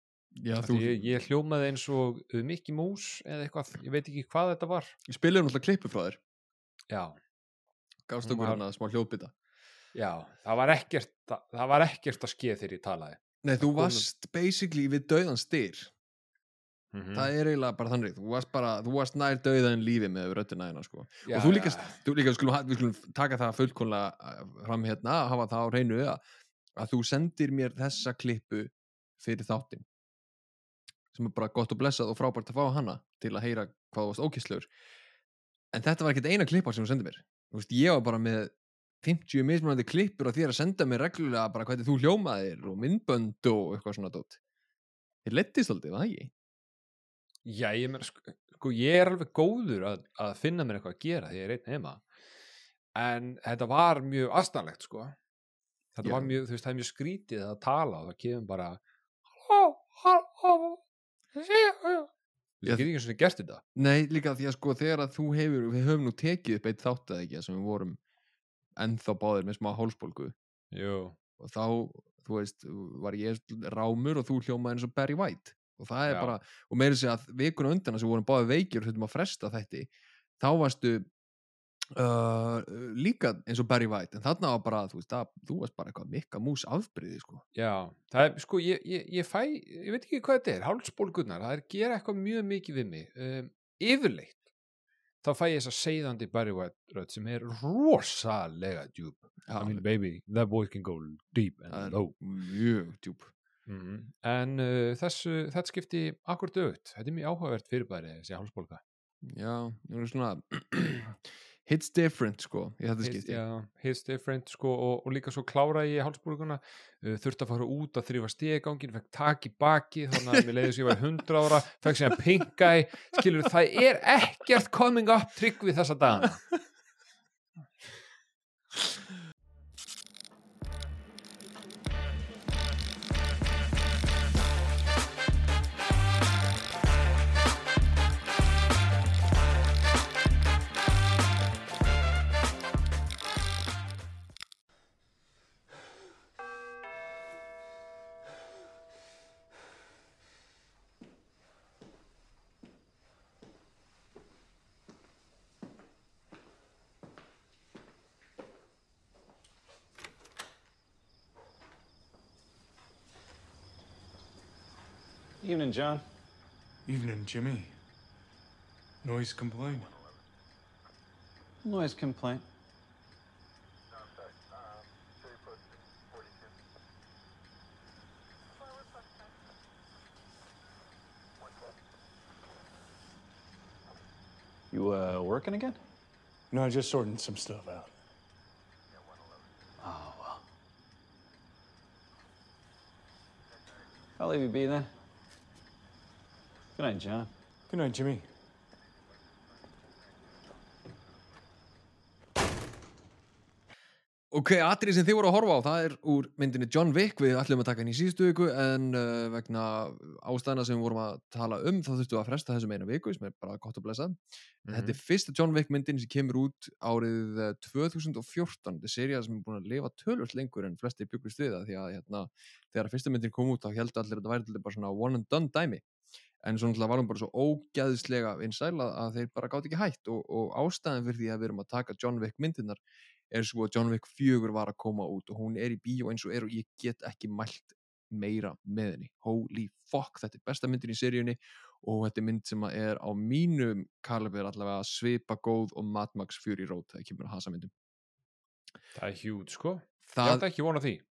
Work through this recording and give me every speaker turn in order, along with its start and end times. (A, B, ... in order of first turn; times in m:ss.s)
0:00.4-0:01.1 A
0:00.6-0:05.0 B
0:05.1-0:06.2 A
0:06.9-0:07.2 B
0:08.1-0:09.3 A
0:08.2-0:08.6 B
0:09.9-0:14.1 B
0:13.4-0:15.9 A
0:16.9-0:17.3 B
0:17.1-0:26.2 A
0:21.3-0:22.0 B
0:26.8-0:29.8 A
0:31.1-0:34.7 A
0:35.7-0:44.4 A
0:45.2-0:46.3 A
0:47.4-0:52.0 B
0:52.9-0:55.1 B
0:55.9-0:58.8 B
0:56.0-0:56.3 A
0:59.3-1:00.8 B
1:01.3-1:02.1 B
1:02.6-1:03.6 B
1:03.7-1:08.0 A
1:08.8-1:10.3 A
1:10.7-1:11.2 B
1:11.4-1:21.1 A
1:16.1-1:16.3 B
1:21.9-1:27.4 A
1:27.5-1:34.4 B
1:35.2-1:42.1 B
1:39.4-1:39.8 A
1:41.7-1:43.3 A
1:43.6-1:48.8 B
1:49.2-1:53.4 A
1:53.0-2:06.4 B
2:45.4-2:46.0 C
2:46.8-2:47.7 D
2:49.0-2:49.9 D
2:51.6-2:52.4 C
3:04.7-3:05.8 C
3:06.5-3:07.9 D
3:09.8-3:10.4 C
3:14.2-3:14.9 C
3:16.7-3:17.3 C
3:17.7-3:18.2 D
3:24.3-3:45.8 A
3:34.6-3:35.0 B
3:46.4-3:52.8 A
3:53.3-4:07.7 A
4:08.9-4:11.0 B
4:10.1-4:10.4 A